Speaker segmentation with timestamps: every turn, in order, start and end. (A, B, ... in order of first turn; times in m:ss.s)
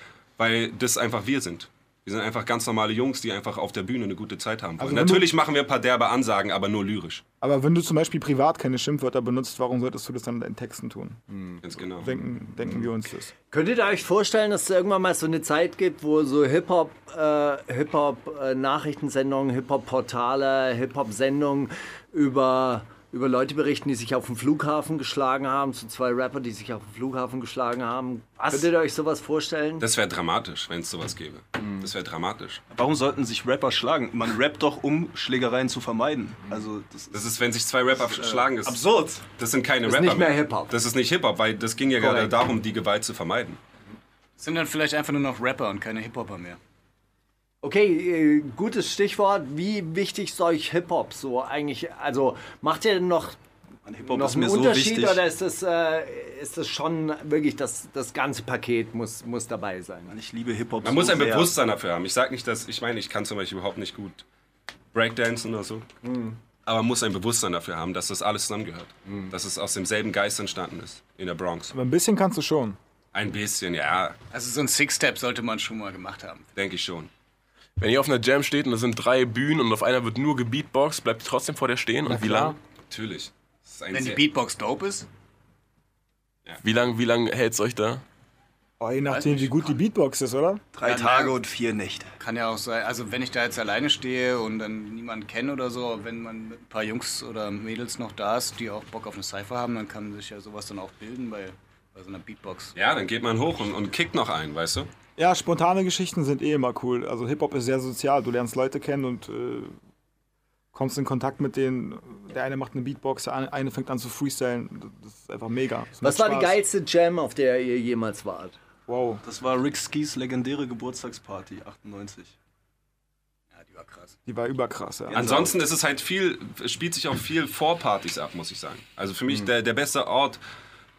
0:00.4-0:07.2 A
0:04.8-0:05.3 B
0:07.4-0:11.2 B
0:11.6-0:12.2 A
0:12.0-0:13.3 B
0:13.5-0:29.9 C
0:29.8-0:32.6 A
0:32.7-0:37.2 D
0:37.1-0:38.8 A
0:38.2-0:39.2 D
0:39.4-0:43.6 A
0:39.9-0:40.7 C
0:44.4-0:46.6 E
0:47.6-0:53.4 C
0:53.9-0:55.2 D
0:54.1-1:00.2 C
1:00.1-1:01.5 D
1:00.8-1:04.2 A
1:04.9-1:05.9 A
1:06.0-1:06.4 C
1:06.7-1:11.7 A
1:11.7-1:12.8 B
1:13.1-1:14.2 A
1:14.3-1:16.5 E
1:16.6-1:17.1 A
1:17.8-1:22.6 F
1:22.1-1:22.6 B
1:22.9-1:24.2 A
1:23.9-1:25.1 E
1:26.6-1:28.0 F
1:28.8-1:30.7 B
1:29.1-1:29.8 E
1:30.7-1:32.1 D
1:30.8-1:31.4 E
1:32.2-1:42.7 E
1:42.8-1:44.9 A
1:45.2-1:49.8 B
1:50.7-1:56.6 B
1:56.0-1:58.6 C
1:58.9-1:59.2 B
1:59.2-2:02.4 D
2:03.6-2:04.2 E
2:04.3-2:05.4 B
2:05.1-2:10.4 A
2:05.1-2:05.5 D